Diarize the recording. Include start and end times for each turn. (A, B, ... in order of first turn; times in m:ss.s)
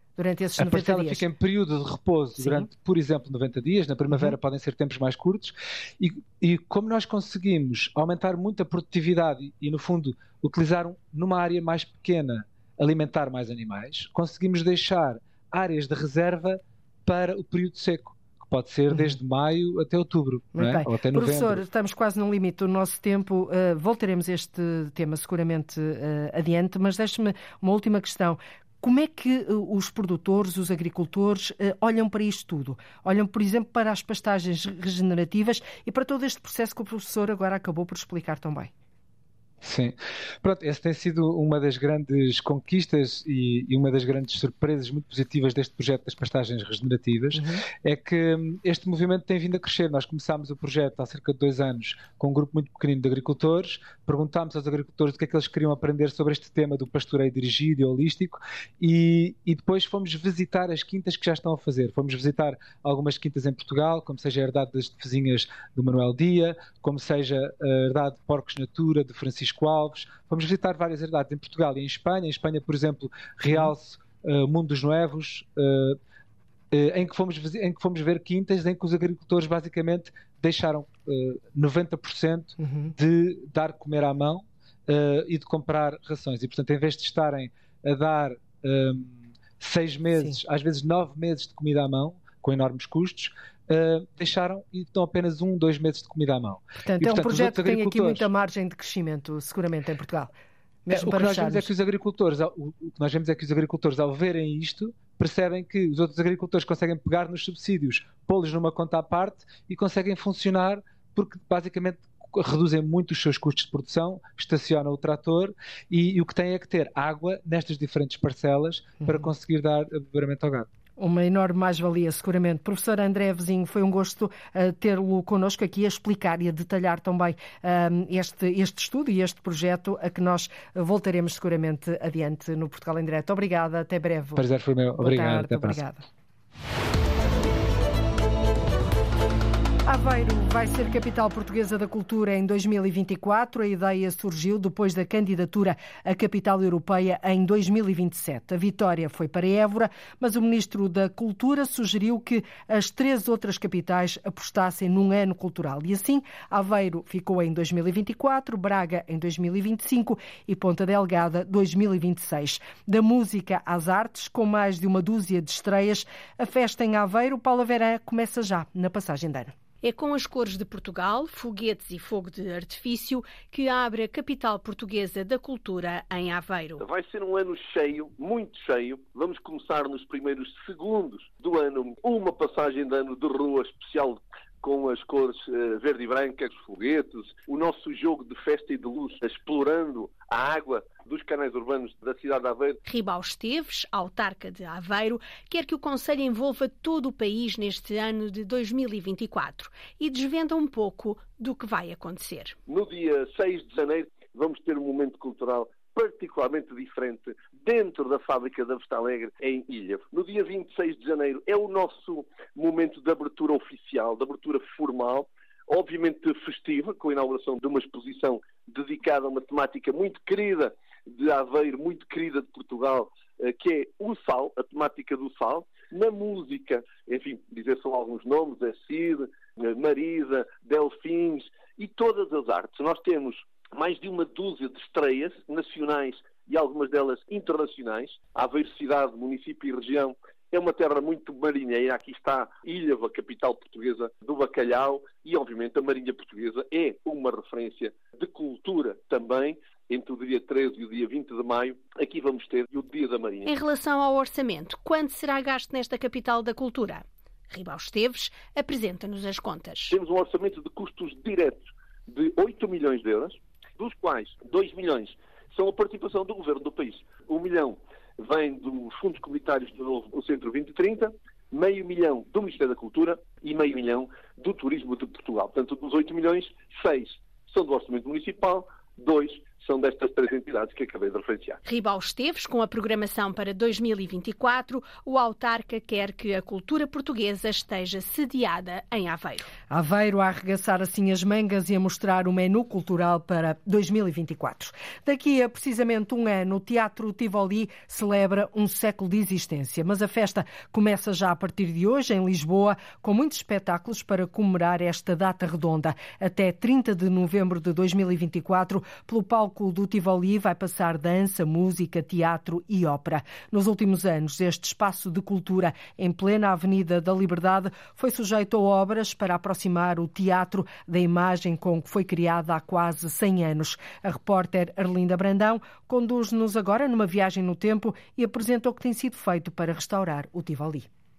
0:00.2-0:01.2 A
0:00.6-0:21.6 B
0:02.4-0:02.7 A
0:04.1-0:04.4 A
0:18.9-0:19.2 A
0:20.6-0:38.7 A
0:39.6-1:16.0 B
0:47.3-0:47.6 A
1:16.7-1:38.3 B
1:22.6-1:22.9 A
1:30.1-1:30.4 A
1:36.9-1:40.3 A
1:40.9-1:41.7 A
1:40.9-2:00.7 B
1:59.0-1:59.3 A
2:01.0-2:14.4 A
2:14.4-2:15.8 B
2:15.0-2:16.0 A
2:19.9-2:49.5 A
2:49.8-2:56.8 C
2:56.8-3:12.8 D
3:12.8-3:22.6 C
3:22.7-4:13.5 D
4:13.4-4:19.9 C
4:19.9-4:41.6 D
4:41.6-4:49.5 C
4:49.7-5:30.9 A